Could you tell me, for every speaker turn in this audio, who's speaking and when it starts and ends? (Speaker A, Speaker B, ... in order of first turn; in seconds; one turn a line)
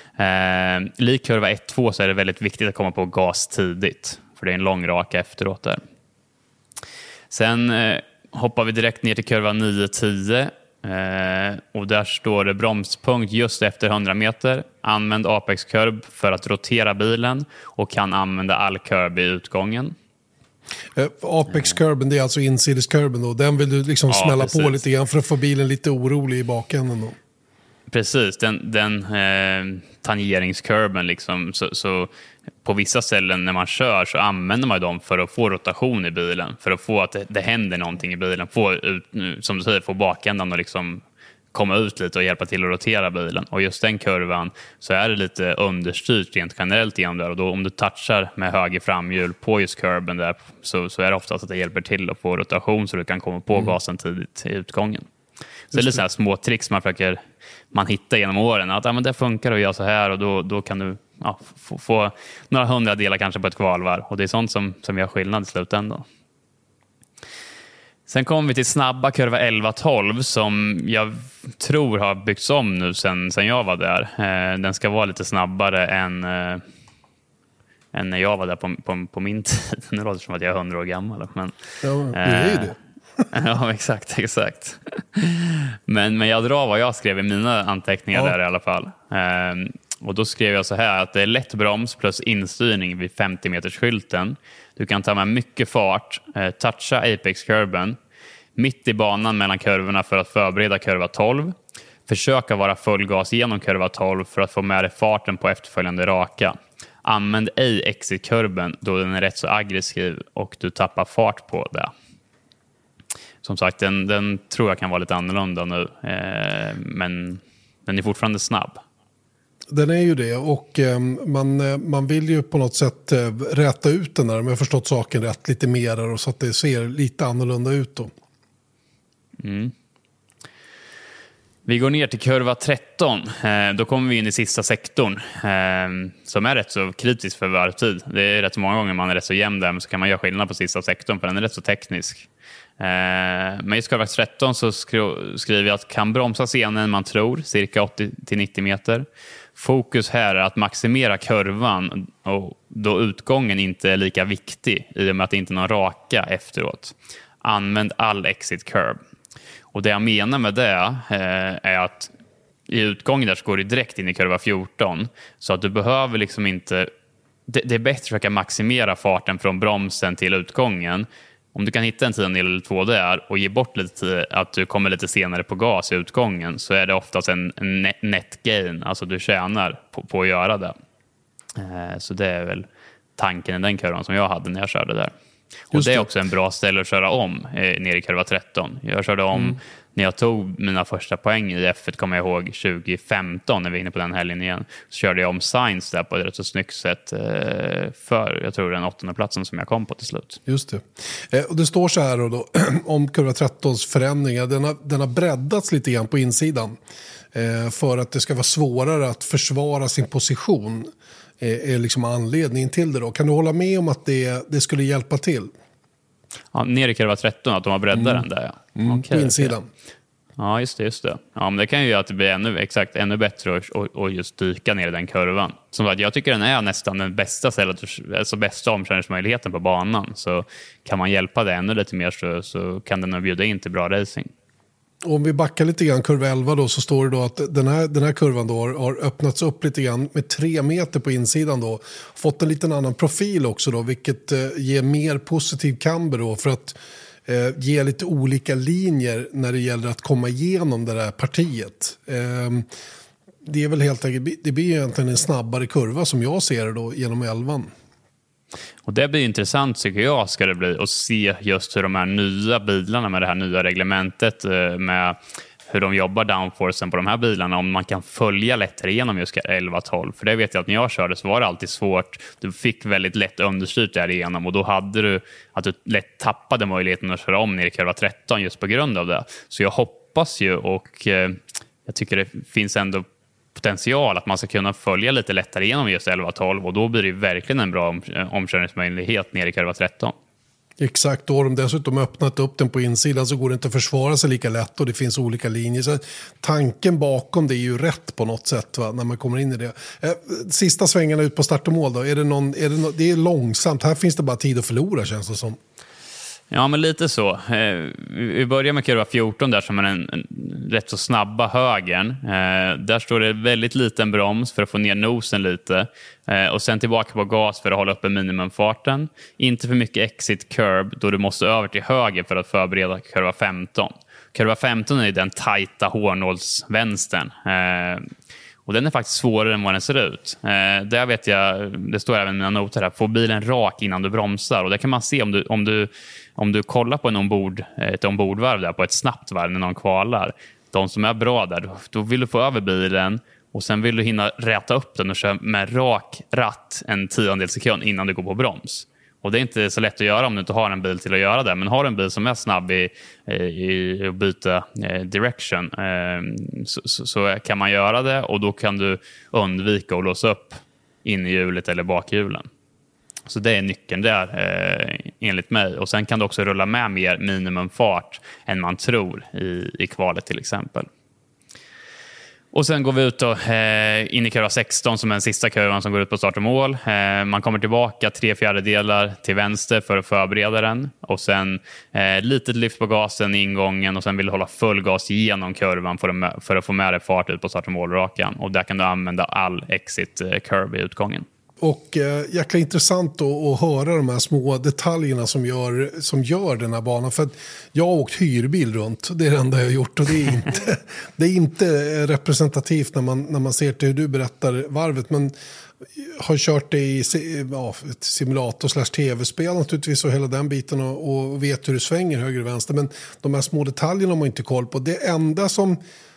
Speaker A: 0.2-5.8
Speaker A: 7.3-19.9
Speaker B: 20.9-27.1
Speaker A: 24.1-24.8
Speaker A: 27.9-32.1
Speaker A: 32.6-41.0
Speaker A: 41.5-55.1
Speaker A: 55.7-57.2
Speaker B: 55.7-56.0
Speaker A: 57.7-66.0
Speaker A: 68.1-76.6
Speaker A: 77.9-81.5
Speaker B: 81.8-82.8
Speaker A: 82.1-82.7
Speaker A: 83.3-98.0
Speaker A: 98.5-101.5
Speaker A: 102.1-111.9
Speaker A: 113.4-118.8
Speaker B: 119.7-128.1
Speaker A: 129.4-129.7
Speaker A: 131.7-142.3
Speaker A: 142.8-149.0
Speaker A: 149.6-159.0
Speaker A: 159.7-162.1
Speaker A: 162.7-166.9
Speaker A: 167.5-180.7
Speaker A: 181.6-182.6
Speaker A: 183.2-185.1
Speaker A: 185.7-200.4
Speaker B: 185.7-186.1
Speaker B: 200.5-206.8
Speaker B: 207.3-215.5
Speaker A: 216.5-219.5
Speaker B: 217.9-218.2
Speaker B: 218.8-219.7
Speaker A: 220.4-234.3
Speaker B: 235.0-246.8
Speaker B: 247.3-252.7
Speaker B: 253.4-257.7
Speaker A: 258.8-265.2
Speaker A: 265.7-283.0
Speaker A: 283.5-290.1
Speaker B: 290.8-305.6
Speaker A: 306.5-328.0
Speaker A: 328.6-362.5
Speaker A: 363.3-370.9
Speaker A: 372.5-391.2
Speaker B: 391.6-405.3
Speaker B: 406.0-415.8